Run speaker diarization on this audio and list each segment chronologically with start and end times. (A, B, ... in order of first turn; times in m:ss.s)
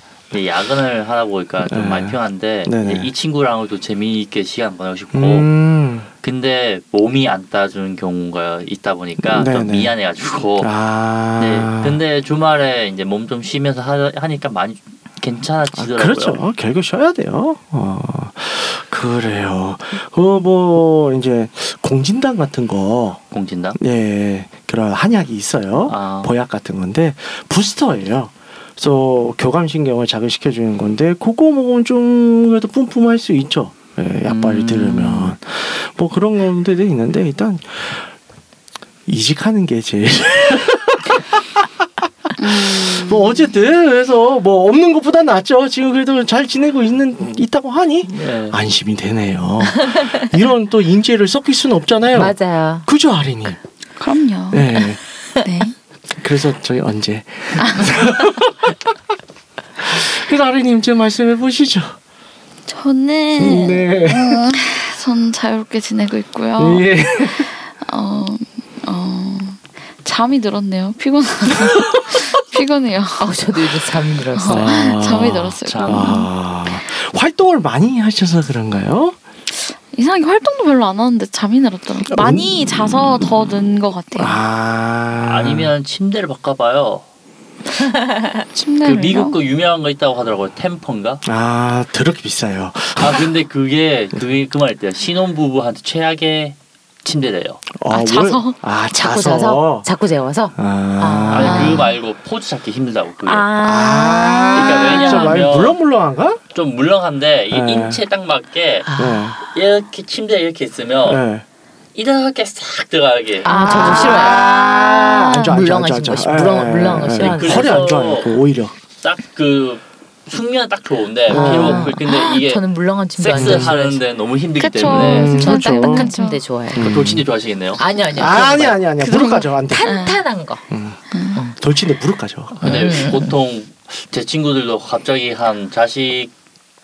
0:00.3-0:05.5 A
0:01.7-0:03.1 B
0:05.1-0:06.1 B
0:06.2-0:10.7 A
0:09.2-0:12.0 B
0:11.4-0:16.4 A
0:15.7-0:23.2 B
0:23.3-0:23.8 A
0:23.8-0:38.1 B
0:25.9-0:26.3 A
0:34.2-0:35.3 A
0:39.1-0:41.7 B
0:42.3-0:53.6 B
0:42.4-0:43.4 C
0:48.1-0:48.6 A
0:52.1-0:52.9 D
0:54.0-0:55.7 C
0:54.5-0:55.0 B
0:56.2-0:58.7 B
0:59.8-1:02.0 B
1:02.7-1:13.3 C
1:03.4-1:04.4 B
1:06.6-1:07.5 B
1:11.6-1:12.2 B
1:13.2-1:14.8 D
1:14.3-1:16.3 C
1:14.5-1:19.2 B
1:15.7-1:16.2 A
1:19.6-1:24.4 C
1:22.1-1:22.7 B
1:24.2-1:25.7 B
1:25.2-1:27.0 A
1:28.5-1:29.4 C
1:28.8-1:31.2 A
1:31.2-1:33.3 B
1:33.0-1:37.6 A
1:37.7-1:39.9 B
1:37.9-1:38.6 C
1:38.9-1:41.8 D
1:40.6-1:41.8 B
1:41.3-1:43.5 A
1:41.4-1:41.9 C
1:43.2-1:45.4 C
1:43.6-1:46.4 B
1:44.5-1:45.8 A
1:46.5-1:48.9 A
1:47.5-1:48.0 B
1:48.8-1:49.4 D
1:49.0-1:49.4 B
1:49.4-1:51.2 A
1:51.0-1:51.4 B
1:51.9-1:53.5 A
1:53.4-1:54.5 D
1:53.5-1:55.0 C
1:53.5-1:58.7 B
1:55.0-1:57.8 D
1:57.2-1:58.4 A
1:59.0-2:05.5 A
2:01.3-2:01.9 B
2:01.3-2:04.0 D
2:03.3-2:03.7 B
2:04.6-2:06.4 C
2:04.8-2:06.1 B
2:05.4-2:06.8 D
2:06.7-2:07.2 B
2:06.8-2:07.8 A
2:07.8-2:08.8 D
2:08.1-2:10.0 B
2:09.0-2:10.2 C
2:09.7-2:10.6 D
2:10.7-2:11.0 B
2:11.1-2:11.4 C
2:11.6-2:13.0 B
2:12.6-2:16.3 A
2:12.6-2:13.3 D